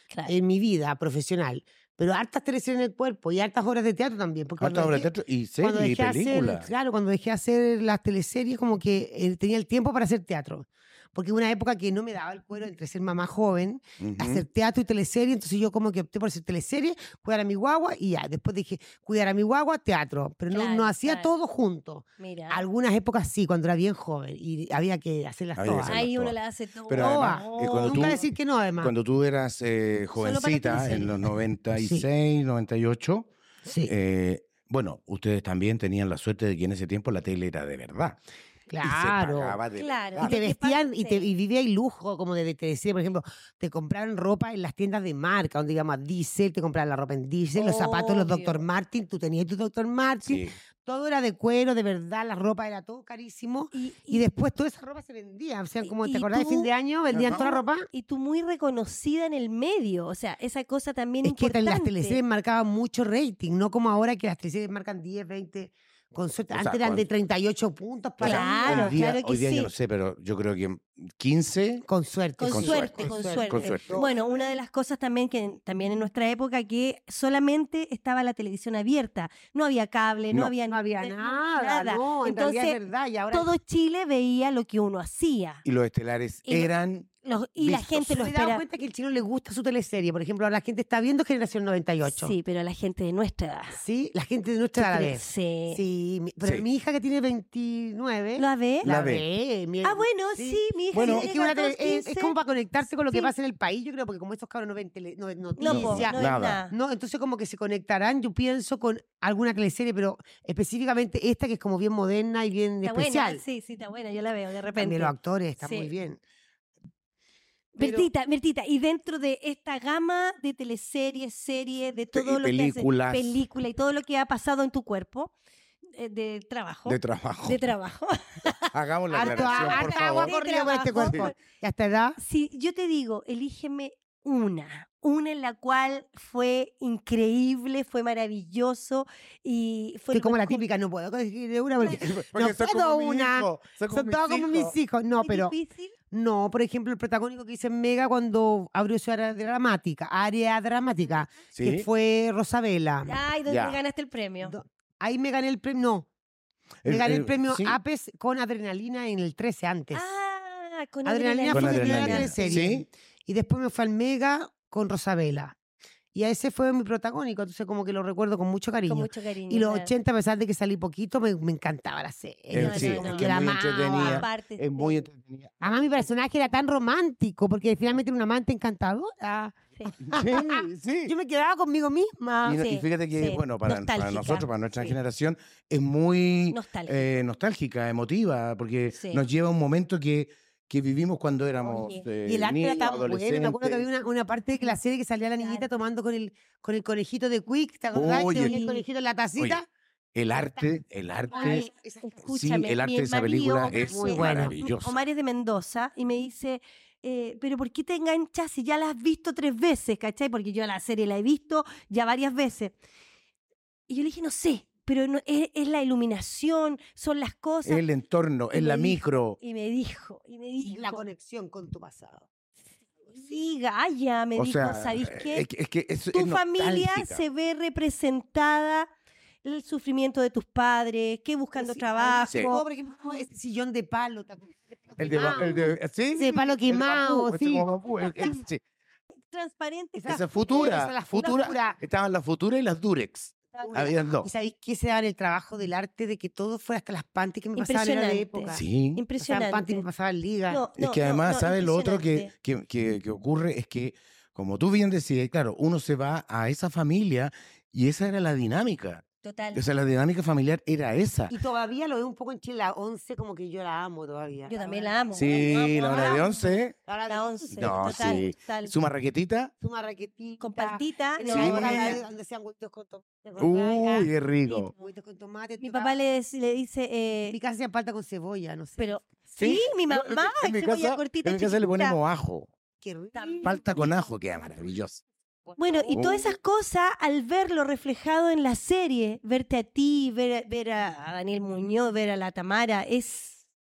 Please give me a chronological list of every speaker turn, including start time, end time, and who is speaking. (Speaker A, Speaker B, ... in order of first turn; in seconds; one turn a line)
Speaker A: 0.2-5.1
Speaker B: 4.6-6.7
Speaker A: 5.6-26.1
Speaker B: 14.0-14.4
Speaker C: 20.5-21.3
Speaker C: 22.2-22.6
Speaker B: 25.6-26.3
Speaker C: 25.9-28.2
Speaker B: 26.9-28.2
Speaker A: 26.9-28.9
Speaker B: 28.8-33.3
Speaker C: 30.2-31.1
Speaker A: 31.8-32.0
Speaker A: 33.6-33.9
Speaker B: 33.8-38.2
Speaker A: 38.7-39.6
Speaker B: 38.8-40.4
Speaker C: 39.7-41.3
Speaker A: 40.2-57.9
Speaker C: 47.5-48.6
Speaker B: 50.2-50.5
Speaker C: 53.7-54.3
Speaker C: 55.8-56.7
Speaker B: 57.1-57.5
Speaker C: 57.2-62.2
Speaker A: 61.2-69.0
Speaker B: 66.5-67.0
Speaker B: 68.2-71.8
Speaker C: 68.2-69.7
Speaker A: 71.9-74.5
Speaker C: 72.4-82.8
Speaker B: 72.5-74.0
Speaker A: 80.7-83.5
Speaker C: 83.3-85.6
Speaker B: 85.6-87.1
Speaker C: 86.5-86.7
Speaker C: 87.2-88.6
Speaker A: 87.7-92.3
Speaker C: 92.0-93.8
Speaker A: 93.7-113.4
Speaker C: 94.8-95.8
Speaker C: 98.4-98.9
Speaker B: 98.8-99.2
Speaker C: 99.8-102.3
Speaker B: 100.9-101.3
Speaker C: 105.6-106.7
Speaker B: 105.6-106.6
Speaker C: 112.8-115.9
Speaker A: 114.8-116.2
Speaker C: 117.7-125.3
Speaker A: 117.8-118.1
Speaker B: 122.1-123.4
Speaker C: 125.9-131.4
Speaker B: 126.8-127.6
Speaker B: 128.7-130.3
Speaker A: 129.1-132.2
Speaker C: 132.2-140.6
Speaker A: 140.1-145.5
Speaker B: 141.8-144.7
Speaker C: 145.2-145.9
Speaker A: 146.1-153.2
Speaker B: 151.5-151.9
Speaker C: 153.0-154.5
Speaker B: 153.5-153.8
Speaker A: 154.4-156.1
Speaker B: 156.8-157.8
Speaker A: 156.8-160.0
Speaker C: 159.9-162.4
Speaker A: 161.0-165.6
Speaker B: 161.5-162.8
Speaker A: 166.1-174.2
Speaker C: 168.9-169.9
Speaker B: 172.5-175.6
Speaker C: 172.6-175.1
Speaker A: 175.6-182.6
Speaker B: 180.0-181.1
Speaker C: 182.4-184.5
Speaker B: 182.4-193.8
Speaker C: 186.5-187.1
Speaker C: 188.9-189.2
Speaker C: 191.6-192.1
Speaker A: 192.2-199.7
Speaker C: 195.4-195.7
Speaker B: 197.9-198.6
Speaker C: 197.9-198.8
Speaker B: 200.1-201.6
Speaker A: 201.3-202.4
Speaker C: 201.3-212.8
Speaker B: 202.2-205.0
Speaker A: 203.7-204.6
Speaker C: 213.9-217.8
Speaker B: 217.6-219.4
Speaker C: 218.5-221.0
Speaker A: 220.6-222.3
Speaker C: 223.1-225.4
Speaker B: 224.3-227.2
Speaker C: 226.1-228.9
Speaker C: 229.4-232.6
Speaker A: 231.5-238.3
Speaker B: 235.0-238.6
Speaker C: 239.3-240.2
Speaker A: 240.0-241.8
Speaker B: 240.1-244.3
Speaker A: 243.6-248.6
Speaker C: 247.6-249.8
Speaker B: 248.5-249.0
Speaker A: 249.2-250.6
Speaker C: 250.5-252.3
Speaker B: 250.8-261.4
Speaker C: 259.2-259.6
Speaker A: 261.3-266.3
Speaker C: 264.5-266.4
Speaker B: 265.1-266.7
Speaker A: 266.9-268.2
Speaker C: 267.1-268.7
Speaker B: 267.6-269.5
Speaker A: 269.6-275.9
Speaker C: 270.4-272.0
Speaker B: 271.3-272.0
Speaker B: 273.4-274.7
Speaker C: 275.6-277.4
Speaker A: 277.3-279.5
Speaker C: 278.8-282.0
Speaker B: 279.4-282.5
Speaker A: 282.8-283.6
Speaker C: 283.1-283.6
Speaker B: 283.4-285.0
Speaker A: 285.4-286.2
Speaker C: 285.6-293.4
Speaker B: 285.9-286.3